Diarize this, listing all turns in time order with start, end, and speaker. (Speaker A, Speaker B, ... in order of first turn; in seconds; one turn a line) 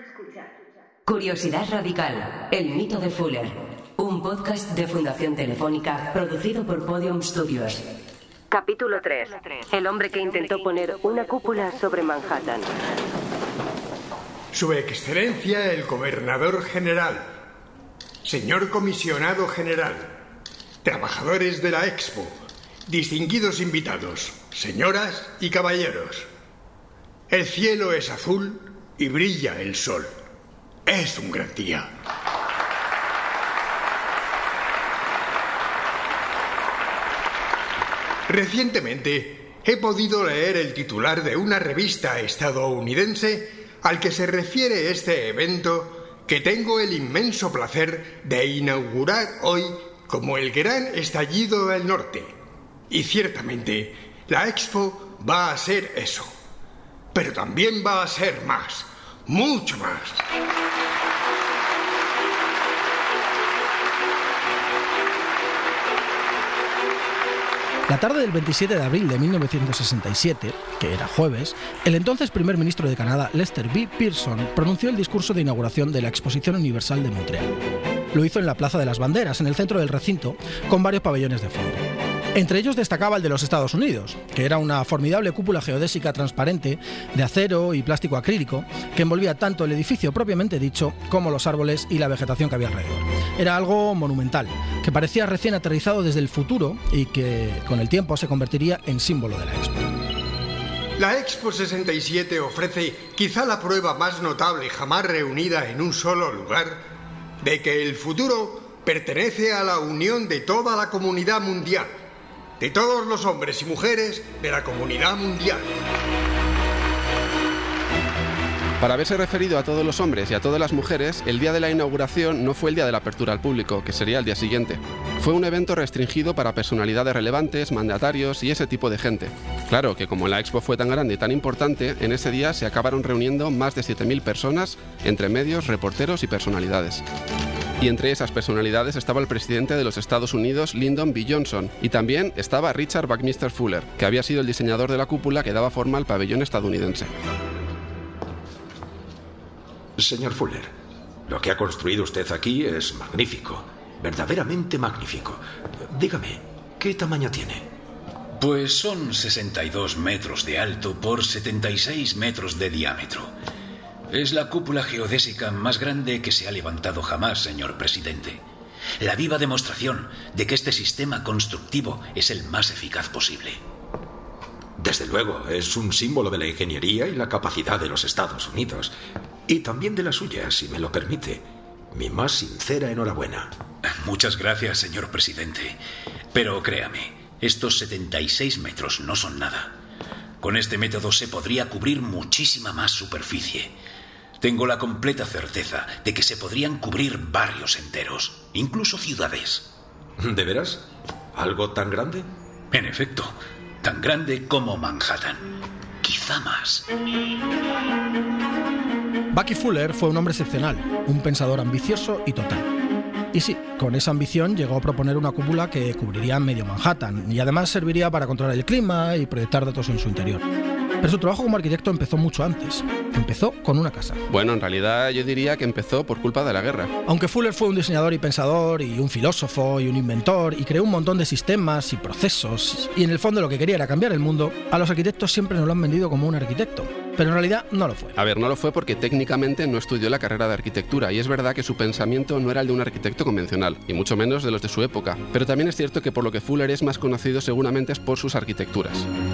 Speaker A: 1.1-7.8
Speaker A: 8.5-12.7
Speaker B: 14.5-17.3
Speaker B: 18.2-20.1
Speaker B: 20.8-26.3
Speaker B: 27.3-30.1
Speaker B: 30.9-31.9
Speaker B: 38.3-52.3
Speaker B: 52.9-56.3
Speaker B: 57.1-60.2
Speaker C: 67.9-77.5
Speaker C: 78.1-99.9
Speaker B: 101.0-106.8
Speaker B: 107.4-111.9
Speaker B: 112.6-115.7
Speaker D: 118.8-137.0
Speaker D: 137.8-147.1
Speaker E: 150.0-150.7
Speaker E: 151.3-157.6
Speaker F: 158.3-163.3
Speaker F: 164.1-168.4
Speaker F: 169.0-173.6
Speaker E: 174.8-178.9
Speaker E: 179.5-183.5
Speaker F: 183.8-185.8
Speaker F: 186.3-189.7
Speaker F: 190.4-193.7
Speaker F: 194.4-199.7
Speaker E: 200.2-202.2
Speaker F: 202.7-205.5
Speaker F: 206.0-206.9
Speaker C: 209.3-212.7
Speaker C: 213.3-220.4
Speaker C: 221.0-224.2
Speaker D: 224.3-226.9
Speaker C: 227.1-238.2
Speaker D: 238.2-249.1